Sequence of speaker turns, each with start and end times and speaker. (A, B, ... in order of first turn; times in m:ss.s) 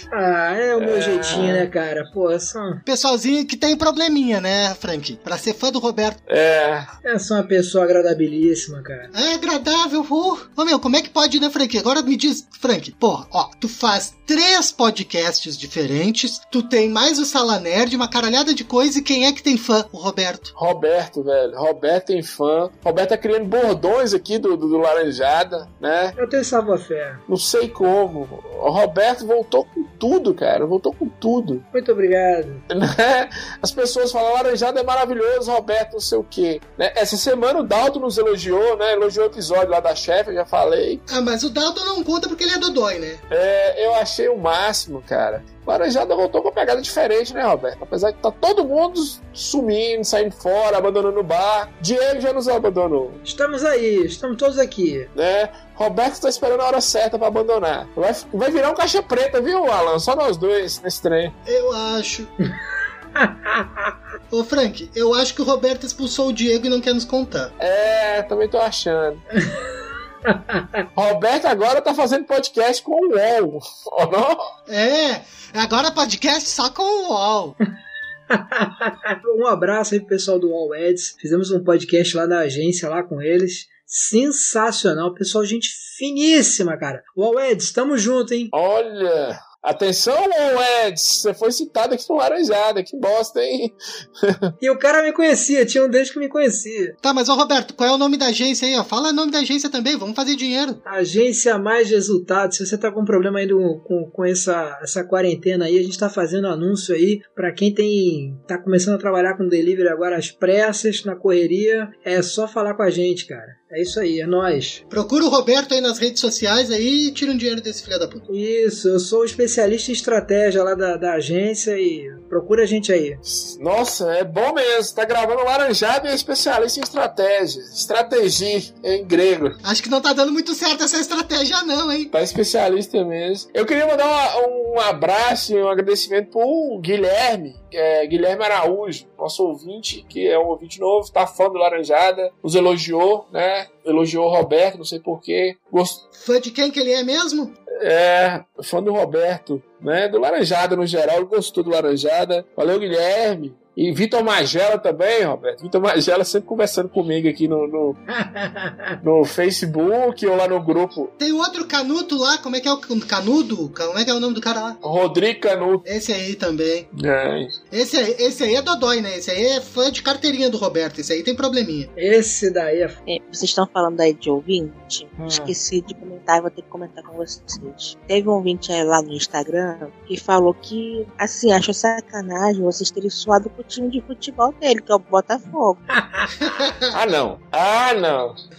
0:00.1-0:02.8 A
0:00.8-0:01.7 B
0:02.8-0:06.2 C
0:06.3-0:06.9 B
0:07.0-0:09.1 A
0:09.1-0:20.5 C
0:20.6-0:26.1 B
0:26.2-0:27.2 A
0:27.3-0:31.6 B
0:31.7-0:32.6 A
0:32.7-0:41.0 B
0:41.1-0:43.2 C
0:43.3-0:53.2 B
0:53.2-0:55.1 A
0:55.1-1:01.3 B
1:01.4-1:02.3 C
1:03.2-1:03.9 A
1:04.3-1:07.5 C
1:07.6-1:09.2 B
1:10.2-1:10.8 A
1:10.9-1:14.5 B
1:14.7-1:17.5 C
1:18.3-1:28.5 A
1:28.5-1:34.5 B
1:34.6-1:36.9 A
1:37.0-1:40.8 C
1:40.8-1:54.8 A
1:54.9-1:58.2 C
1:58.3-2:03.2 A
2:03.2-2:09.6 B
2:09.6-2:12.1 C
2:12.1-2:26.0 B
2:26.1-2:27.5 C
2:27.8-2:38.0 B
2:38.1-2:38.9 A
2:39.0-2:41.1 B
2:41.2-2:44.8 C
2:44.8-2:45.8 B
2:45.8-2:46.9 C
2:46.9-2:47.5 B
2:47.7-2:51.9 C
2:52.0-2:53.0 A
2:53.1-3:05.8 D
2:55.2-2:55.5 A
3:05.9-3:06.3 A
3:06.4-3:06.8 C
3:06.9-3:08.4 B